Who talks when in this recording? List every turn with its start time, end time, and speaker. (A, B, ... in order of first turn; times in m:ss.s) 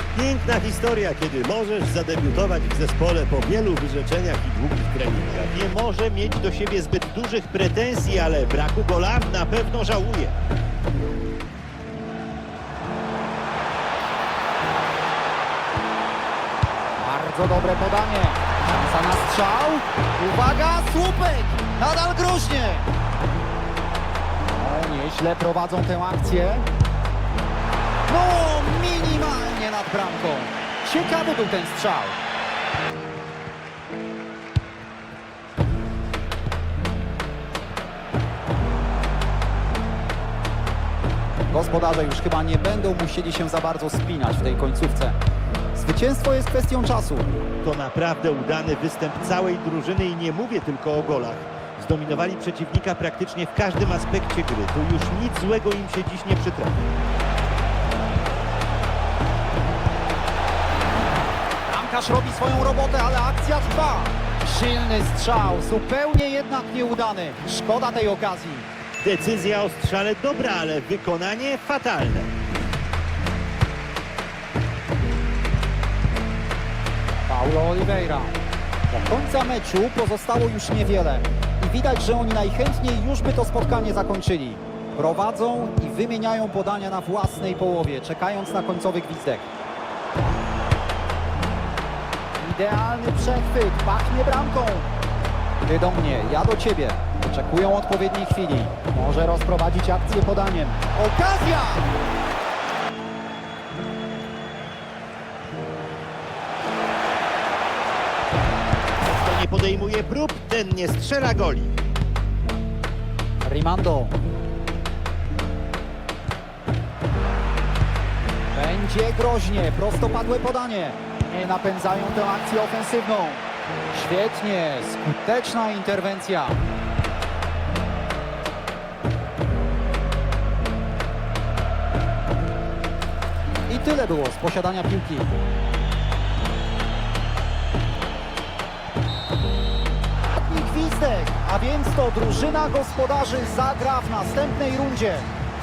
0:00.1-0:10.4 A
0:17.0-0:22.9 B
0:24.4-0:26.6 B
0:28.1-0:32.2 B
0:41.5-0:45.2 B
0:45.7-0:47.3 B
0:47.6-0:56.7 A
1:01.6-1:08.7 B
1:09.0-1:12.3 A
1:17.3-1:18.3 B
1:18.9-1:29.5 B
1:32.4-1:34.9 B
1:35.6-1:41.9 B
1:49.0-1:51.7 A
1:53.4-1:54.1 B
1:58.5-2:06.6 B
2:13.7-2:15.3 B
2:20.3-2:25.3 B